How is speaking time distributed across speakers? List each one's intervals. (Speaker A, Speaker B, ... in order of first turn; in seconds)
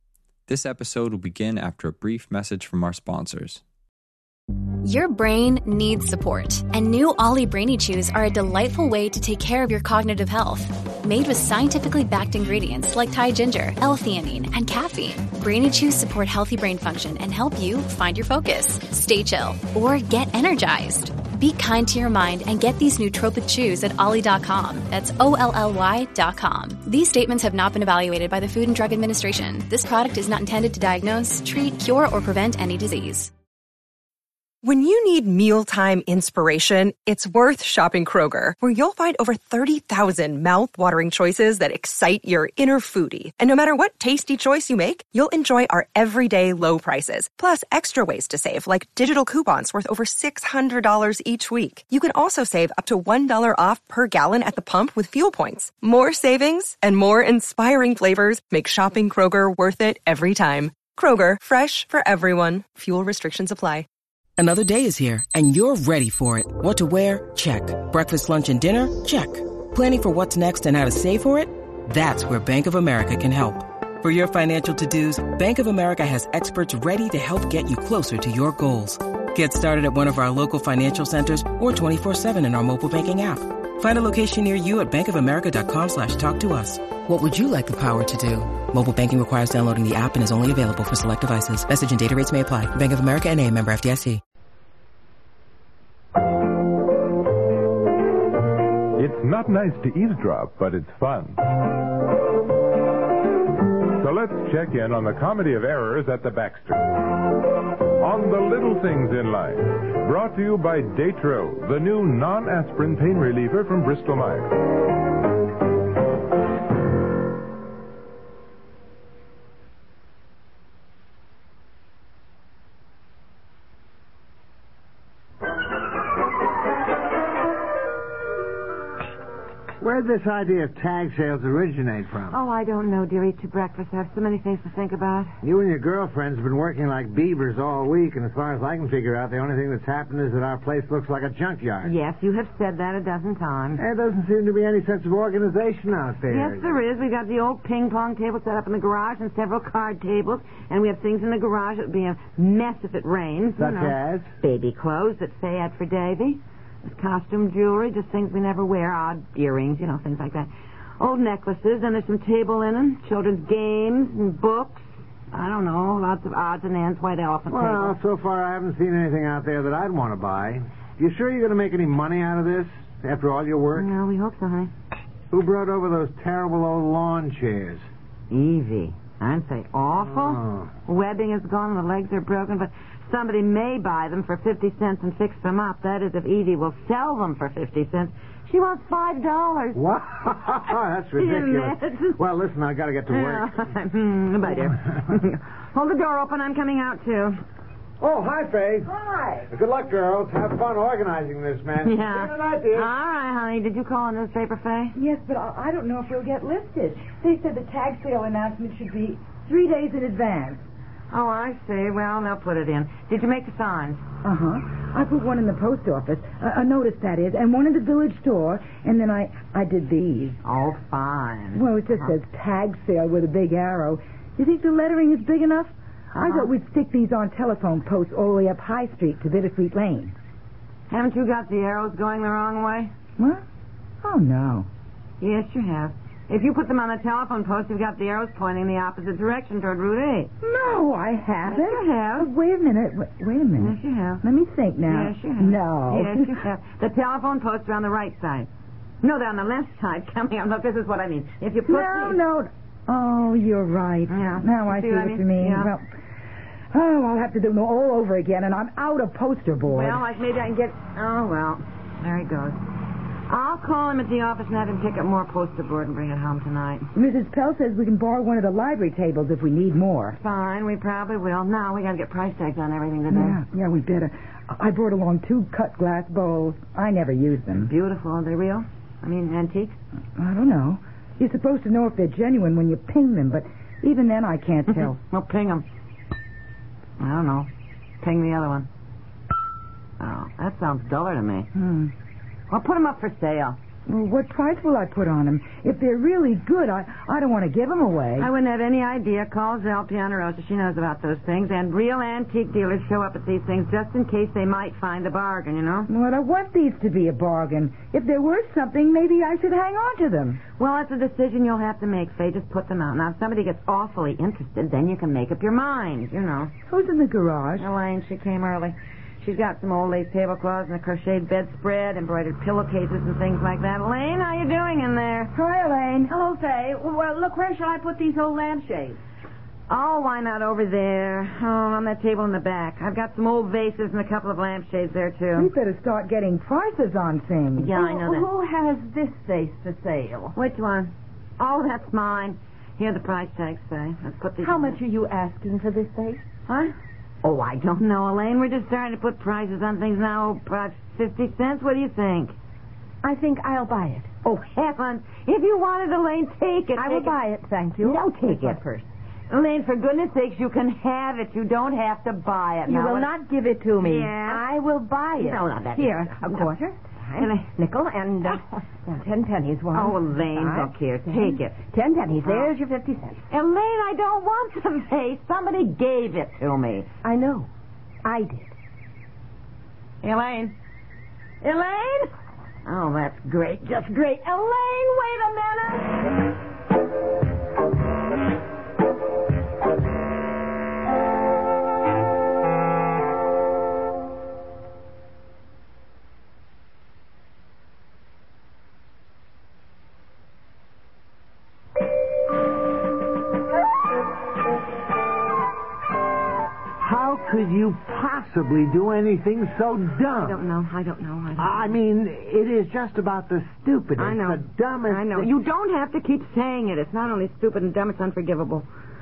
Speaker A: 0.5-3.6, 100.7-101.3, 106.4-106.8, 110.6-111.3
Speaker B: 4.8-33.3
Speaker C: 34.6-63.8
Speaker D: 64.4-94.2
Speaker E: 99.0-101.3, 104.0-106.8, 108.0-114.5
Speaker F: 129.8-132.4, 135.4-141.9, 143.8-146.8, 153.6-154.3, 167.5-173.9, 175.3-177.9, 180.2-180.7, 189.7-193.5, 198.0-198.9, 199.5-202.9, 406.8-410.4, 411.4-415.3
Speaker G: 132.3-135.4, 141.8-143.8, 146.3-168.0, 173.7-174.7, 178.3-189.8, 191.2-192.2, 193.1-197.4, 201.8-204.9, 211.1-214.0, 220.4-222.1, 226.1-226.5, 230.9-232.9, 235.2-240.3, 241.4-242.3, 243.6-244.2, 244.8-248.5, 249.0-252.2, 254.1-255.7, 259.7-262.6, 263.3-266.9, 270.1-273.4, 277.6-279.8, 284.7-285.6, 287.0-287.5, 288.0-288.7, 290.0-291.5, 292.5-293.6, 298.2-305.9, 310.6-316.5, 317.6-325.3, 329.7-335.5, 337.6-338.3, 340.3-344.8, 346.5-346.7, 347.2-352.3, 354.2-357.1, 357.8-358.6, 359.3-363.1, 363.8-364.5, 365.1-366.5, 367.2-367.5, 369.7-371.6, 372.2-372.5, 373.3-376.9, 380.0-380.5, 381.4-382.1, 382.6-386.1, 410.1-411.8, 414.0-418.6
Speaker H: 198.9-199.5, 204.9-210.6, 214.2-220.4, 221.5-230.1, 233.2-233.4, 234.0-234.7, 240.4-246.4, 251.6-255.9, 256.7-260.0, 266.9-270.2, 273.1-277.7, 280.2-285.0, 291.6-291.9, 293.9-298.3, 305.9-310.4, 316.7-317.7, 325.3-326.1, 335.3-337.7
Speaker I: 326.0-329.0, 337.7-340.4, 344.4-346.2, 353.0-354.1, 356.7-358.9, 362.6-373.2, 377.0-377.5, 378.0-378.5